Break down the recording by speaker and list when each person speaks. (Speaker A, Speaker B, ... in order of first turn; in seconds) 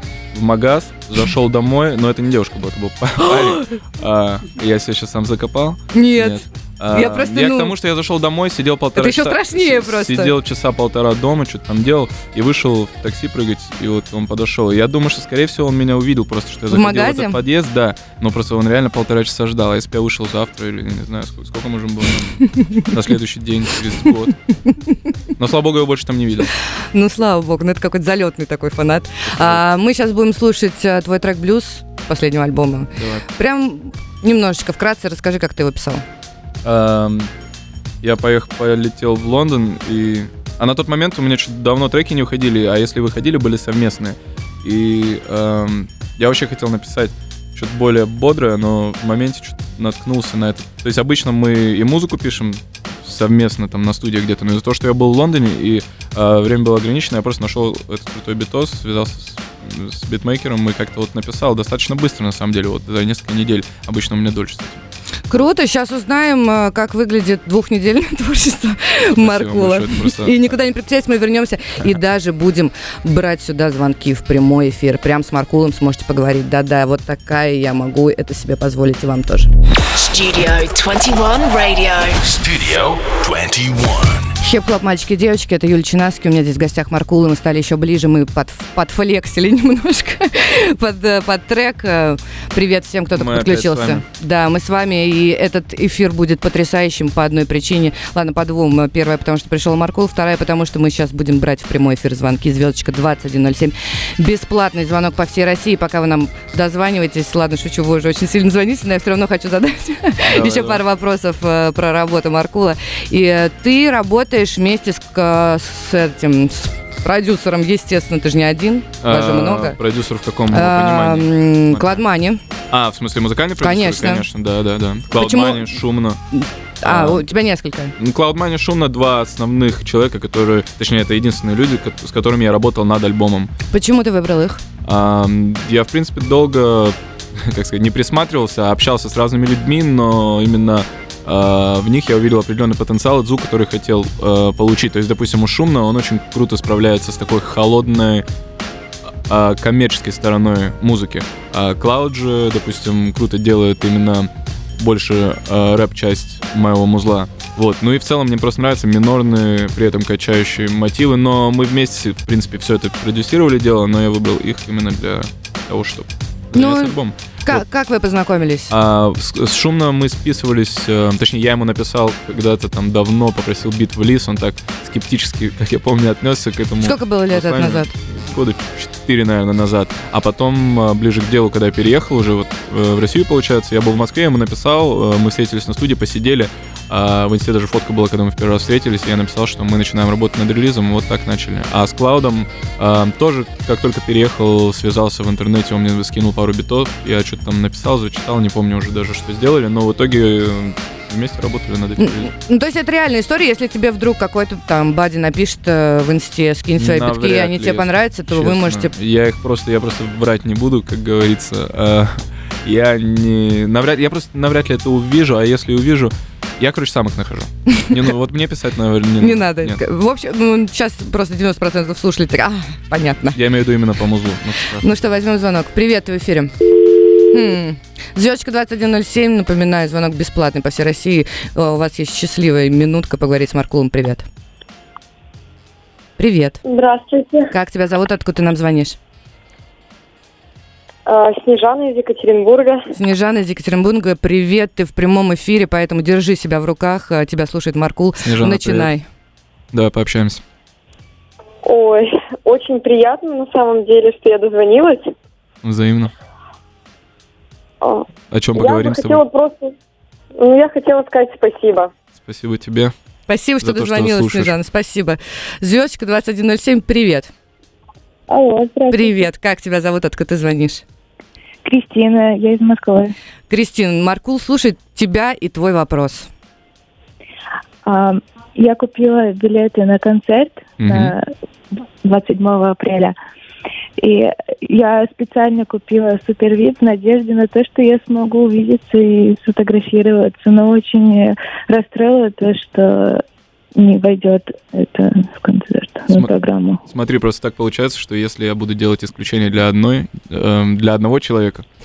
Speaker A: 0.3-24.4, 25.4-26.5, 29.2-29.6, 32.9-33.2, 36.6-37.3, 38.0-64.8, 69.2-70.4, 93.1-94.0, 110.2-110.8, 119.0-122.0, 122.7-126.2, 126.8-127.3, 128.0-133.5, 134.8-148.2, 149.2-167.6, 168.7-202.3, 206.7-219.8, 223.3-224.9, 248.2-248.9, 249.7-250.4, 255.6-256.1, 258.3-259.2, 262.1-262.9, 263.6-264.5, 280.8-281.1, 296.9-301.6
Speaker B: 3.4-3.8, 5.9-7.7, 8.9-10.3, 16.7-17.4, 26.9-36.0, 65.3-79.5, 84.4-119.8, 120.5-122.4, 123.6-124.2, 125.1-125.8, 126.3-127.9, 133.7-134.6, 166.5-168.7, 176.8-177.9, 202.0-208.9, 219.2-223.4, 224.8-226.5, 227.3-234.2, 236.2-236.6, 237.5-239.0, 242.9-249.1, 263.3-267.3, 268.9-270.8, 273.5-276.3
Speaker C: 79.9-82.2
Speaker D: 82.2-84.3
Speaker E: 236.6-237.5, 241.1-242.8, 251.6-255.1, 257.8-259.7, 260.4-261.9
Speaker F: 268.3-269.3, 271.6-273.1, 277.8-281.3, 282.0-283.1, 284.0-293.2, 293.7-296.8